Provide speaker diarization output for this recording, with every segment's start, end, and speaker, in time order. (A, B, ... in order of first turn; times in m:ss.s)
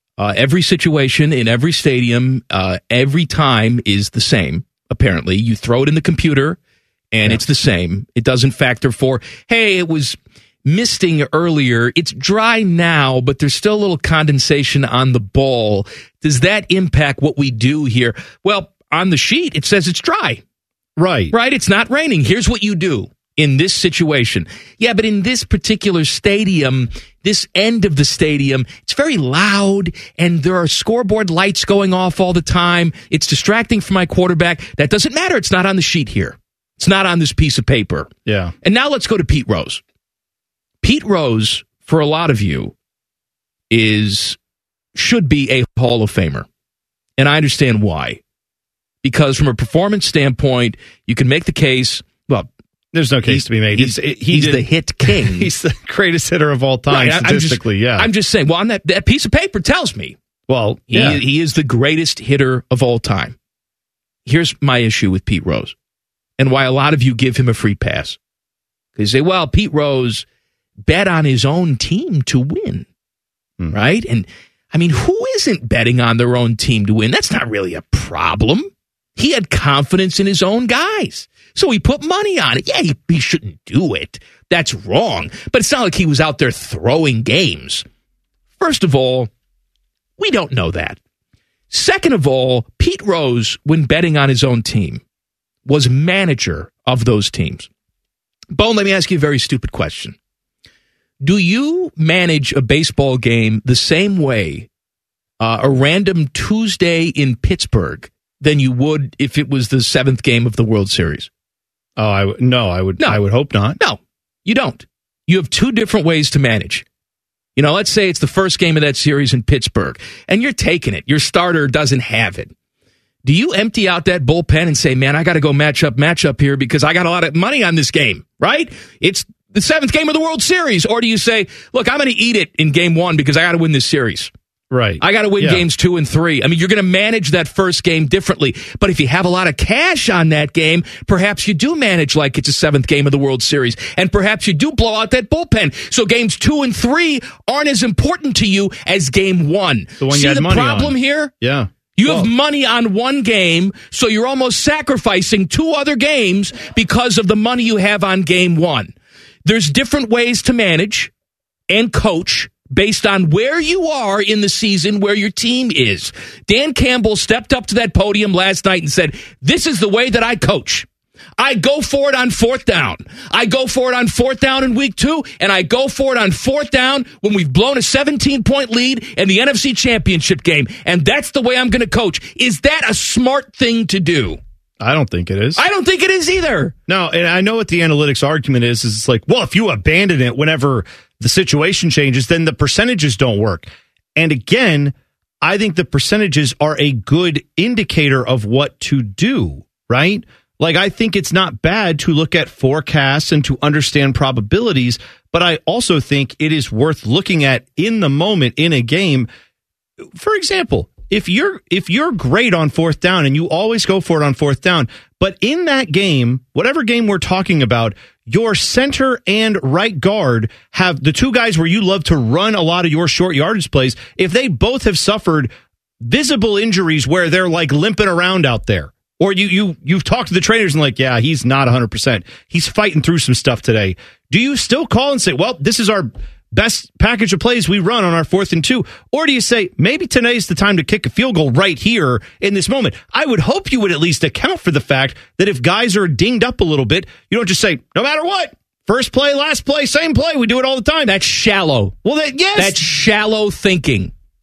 0:00.2-0:06.6 A
0:07.1-0:20.4 A
0:21.0-0:21.3 B
0:21.3-0:38.1 A
0:38.2-0:38.5 B
0:38.6-0:39.8 A
0:40.8-0:42.7 A
0:43.7-0:44.4 A
0:44.9-0:46.4 A
0:47.2-0:48.2 A
0:49.0-0:52.5 A
0:52.9-0:58.1 B
0:53.2-0:55.5 A
0:56.9-1:00.2 A
1:00.5-1:01.2 B
1:00.9-1:03.3 A
1:04.2-1:05.7 A
1:06.4-1:08.2 A
1:09.0-1:10.2 A
1:10.8-1:12.8 A
1:13.7-1:27.8 A
1:28.6-1:29.3 A
1:30.2-1:31.0 A
1:31.7-1:35.0 A
1:35.6-1:37.7 A
1:38.5-1:40.1 A
1:41.2-1:44.7 A
1:45.4-1:51.3 A
1:52.0-1:53.8 B
1:53.8-1:56.8 A
1:57.6-2:02.5 A
2:03.2-2:14.3 A
2:14.7-2:15.6 B
2:15.0-2:31.3 A
2:30.0-2:32.3 B
2:32.0-2:38.9 A
2:39.4-2:41.1 A
2:41.7-2:50.9 A
2:51.4-3:04.4 A
3:04.8-3:05.6 B
3:05.6-3:06.7 A
3:06.9-3:29.3 B
3:30.2-3:45.5 B
3:46.0-4:11.1 B
4:11.1-4:11.9 A
4:12.0-4:12.8 B
4:12.6-4:14.1 A